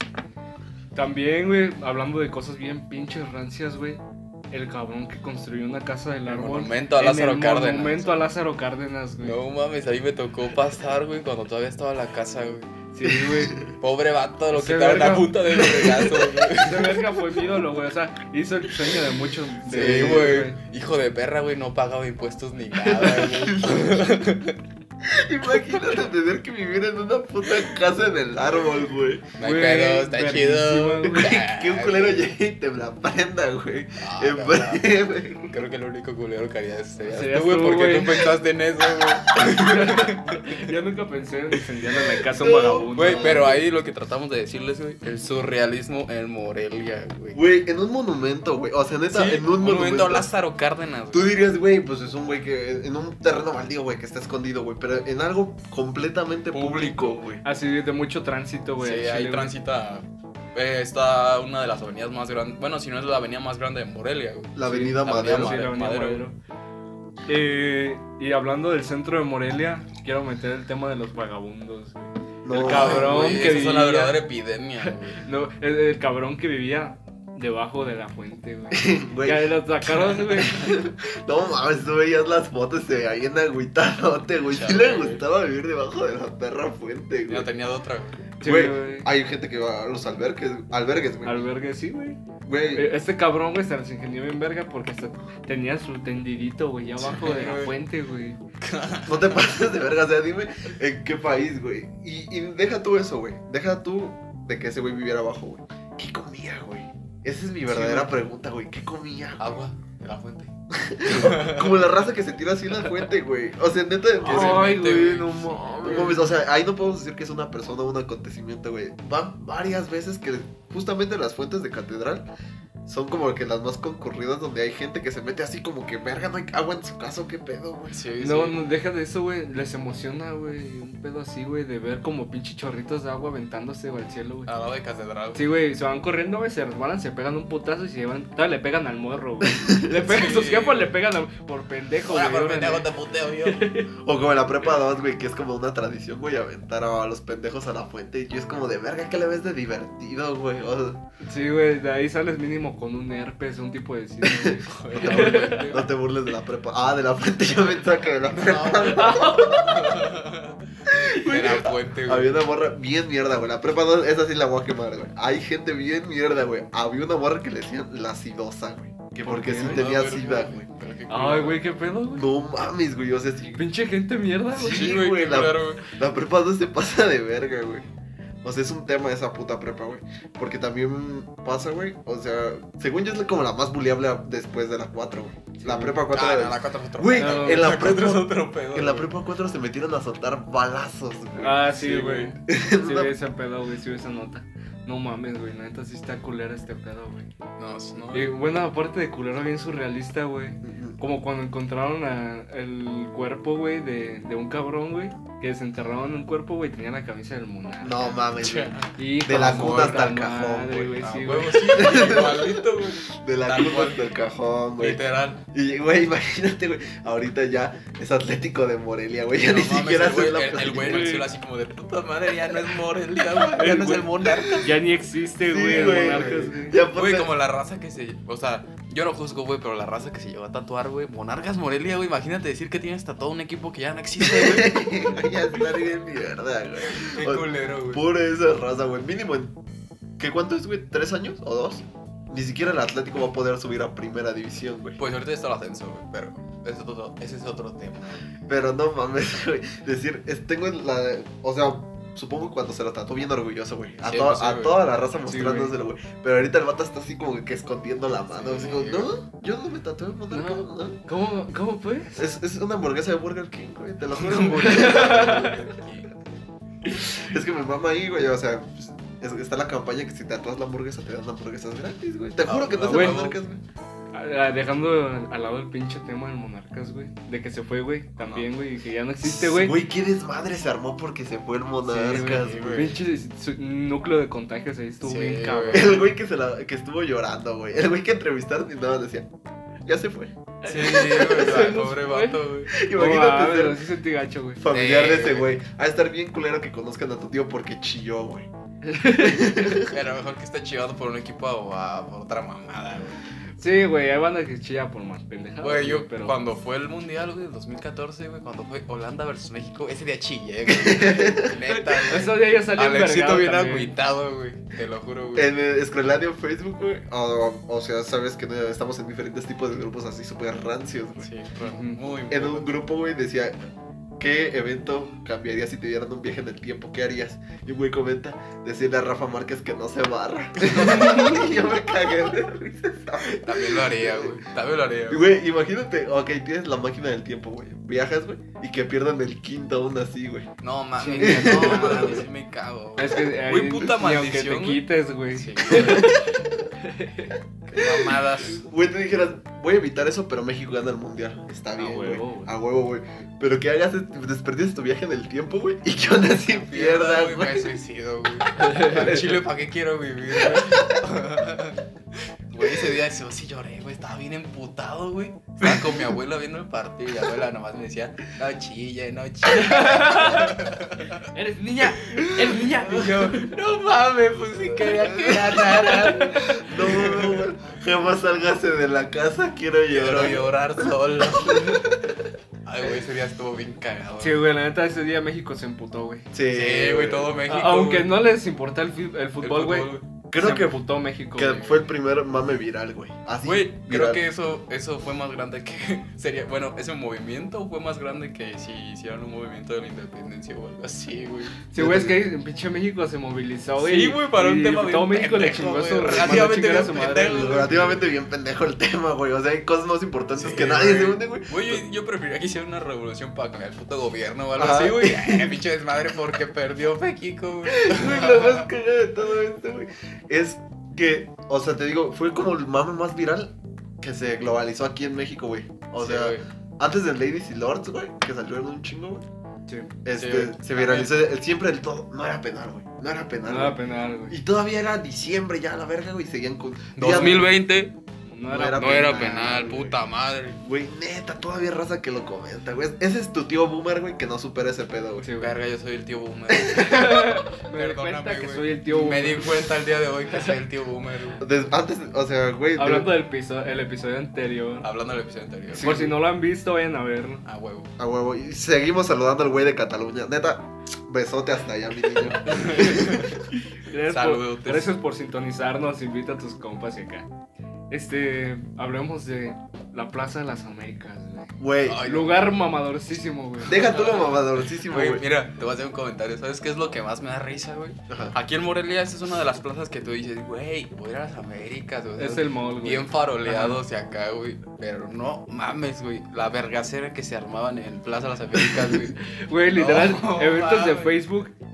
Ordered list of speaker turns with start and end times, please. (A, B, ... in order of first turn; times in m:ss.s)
0:00.9-0:04.0 A
0:04.5-0:09.4 A
0:06.2-0:08.3 B
0:09.2-0:12.7 B
0:12.9-0:13.6 A
0:13.0-0:13.7 C
0:13.8-0:17.0 B
0:14.5-0:20.6 A
0:19.7-0:24.6 B
0:19.8-0:20.2 C
0:23.3-0:24.0 C
0:25.0-0:29.2 C
0:28.5-0:32.3 B
0:29.4-0:31.4 A
0:31.1-0:35.6 C
0:34.0-0:34.8 B
0:35.5-0:40.7 B
0:37.0-0:38.2 A
0:39.3-0:43.5 A
0:42.3-0:43.6 C
0:42.9-0:47.4 B
0:47.3-0:50.3 C
0:49.1-0:51.3 B
0:51.1-0:57.4 C
0:56.5-0:57.2 B
0:57.4-0:59.5 A
0:58.8-1:06.2 B
1:04.5-1:05.6 C
1:04.6-1:06.4 A
1:07.3-1:14.2 A
1:12.4-1:13.4 C
1:12.6-1:15.2 B
1:14.8-1:20.8 A
1:18.7-1:27.5 C
1:24.4-1:25.2 B
1:27.3-1:28.2 B
1:28.4-1:29.1 A
1:28.4-1:31.4 C
1:31.2-1:32.2 A
1:32.4-1:32.9 C
1:32.7-1:38.4 A
1:37.0-1:37.8 B
1:38.6-1:39.3 B
1:39.0-1:49.6 C
1:47.7-1:48.0 A
1:49.4-1:50.5 B
1:50.7-1:55.0 C
1:51.0-1:51.8 B
1:54.2-1:56.1 B
1:54.2-1:56.3 A
1:55.8-2:02.2 C
2:02.8-2:08.0 C
2:07.9-2:08.6 B
2:08.2-2:14.5 A
2:14.4-2:15.4 B
2:15.3-2:22.9 A
2:19.5-2:19.9 C
2:20.0-2:20.9 B
2:22.0-2:23.7 B
2:23.4-2:23.9 A
2:24.0-2:31.0 C
2:31.2-2:35.8 A
2:34.2-2:40.1 C
2:34.6-2:35.9 B
2:38.2-2:42.4 B
2:38.9-2:39.6 A
2:40.9-2:50.7 C
2:49.2-2:49.9 A
2:49.5-2:51.6 B
2:51.1-2:52.3 A
2:52.2-2:53.6 C
2:53.5-2:55.0 A
2:54.5-2:57.9 C
2:54.6-2:55.8 B
2:58.4-3:11.6 C
3:05.6-3:06.0 A
3:06.1-3:09.1 B
3:07.2-3:07.6 A
3:11.4-3:17.3 A
3:11.4-3:12.3 B
3:12.5-3:13.1 C
3:17.6-3:18.3 B
3:18.1-3:28.3 A
3:20.6-3:21.0 C
3:27.8-3:31.0 C
3:28.4-3:30.1 B
3:28.9-3:31.9 A
3:31.0-3:34.1 B
3:31.6-3:41.1 C
3:34.8-3:35.4 B
3:39.4-3:44.7 B
3:40.7-3:41.3 A
3:43.5-3:46.8 A
3:44.3-3:44.7 C
3:45.4-3:47.3 C
3:45.7-3:55.0 B
3:54.2-3:59.6 C
3:56.8-3:58.0 B
4:00.2-4:05.0 C
4:05.0-4:08.2 B
4:08.5-4:21.0 C
4:14.0-4:14.8 B
4:15.2-4:15.7 A
4:18.3-4:19.1 B
4:20.3-4:22.2 A
4:22.1-4:25.5 C
4:24.1-4:26.2 B
4:24.5-4:25.6 A
4:26.8-4:27.2 A
4:27.0-4:33.6 C
4:32.4-4:33.4 B
4:32.9-4:33.2 A
4:34.1-4:39.8 A
4:38.2-4:38.5 B
4:39.2-4:42.9 C
4:41.9-4:46.1 A
4:42.0-4:42.9 B
4:45.0-4:46.0 B
4:45.7-4:49.3 C
4:49.8-4:50.3 C
4:50.6-4:54.6 A
4:50.6-4:52.7 B
4:52.7-4:53.8 C
4:54.6-4:58.5 C
4:54.7-4:55.6 B
4:58.8-4:59.7 A
4:59.2-4:59.9 C
4:59.8-5:03.2 B
5:03.6-5:06.4 A
5:05.6-5:15.5 B
5:10.7-5:11.6 C
5:11.7-5:13.9 A
5:15.3-5:21.3 C
5:21.2-5:22.8 B
5:21.6-5:22.0 A
5:22.3-5:23.6 C
5:24.2-5:34.4 C
5:30.6-5:31.4 B
5:33.2-5:35.2 B
5:35.1-5:40.5 C
5:40.6-5:46.1 B
5:41.0-5:42.2 A
5:41.2-5:42.2 C
5:43.0-5:47.4 A
5:45.7-5:46.3 C
5:47.7-5:48.6 B
5:47.7-5:57.8 C
5:51.8-5:52.5 A
5:56.4-6:01.8 B
5:58.6-5:59.2 A
6:00.4-6:01.0 C
6:02.5-6:11.2 B
6:09.5-6:10.6 A
6:11.3-6:13.5 A
6:12.0-6:17.4 B
6:14.9-6:21.9 C
6:15.9-6:16.7 A
6:19.9-6:21.9 B
6:22.6-6:24.4 B
6:24.2-6:26.2 A
6:26.3-6:27.3 C
6:26.5-6:28.2 B
6:27.5-6:31.8 A
6:29.4-6:30.0 B
6:30.3-6:30.8 C
6:31.3-6:34.2 C
6:33.4-6:41.6 B
6:41.7-6:47.7 A
6:41.8-6:42.2 C
6:43.8-6:48.0 B
6:46.3-6:46.5 C
6:47.2-6:51.8 C
6:50.4-6:58.7 B
6:54.5-6:55.6 C
6:57.7-7:09.2 C
7:06.0-7:06.4 B
7:10.0-7:13.8 C
7:10.2-7:11.2 B
7:13.4-7:14.4 A
7:14.3-7:17.5 C
7:17.0-7:17.9 B
7:18.3-7:18.9 A
7:18.5-7:20.0 C
7:18.8-7:20.6 B
7:20.6-7:25.3 C
7:25.2-7:25.5 A
7:25.4-7:31.4 B
7:26.6-7:26.9 C
7:26.7-7:29.6 A
7:30.3-7:30.6 A
7:31.4-7:33.1 C
7:32.8-7:34.9 A
7:34.8-7:36.1 B
7:35.7-7:36.1 C
7:35.8-7:37.4 A
7:37.4-7:37.9 B
7:38.0-7:43.2 C
7:42.4-7:43.4 B
7:43.7-7:47.3 A
7:44.1-7:44.9 B
7:47.9-7:54.0 A
7:51.6-7:52.0 C
7:51.8-7:52.6 B
7:53.6-7:55.2 C
7:53.7-8:09.2 B
7:58.1-7:58.4 C
8:02.2-8:03.8 A
8:09.2-8:11.5 A
8:09.7-8:11.2 B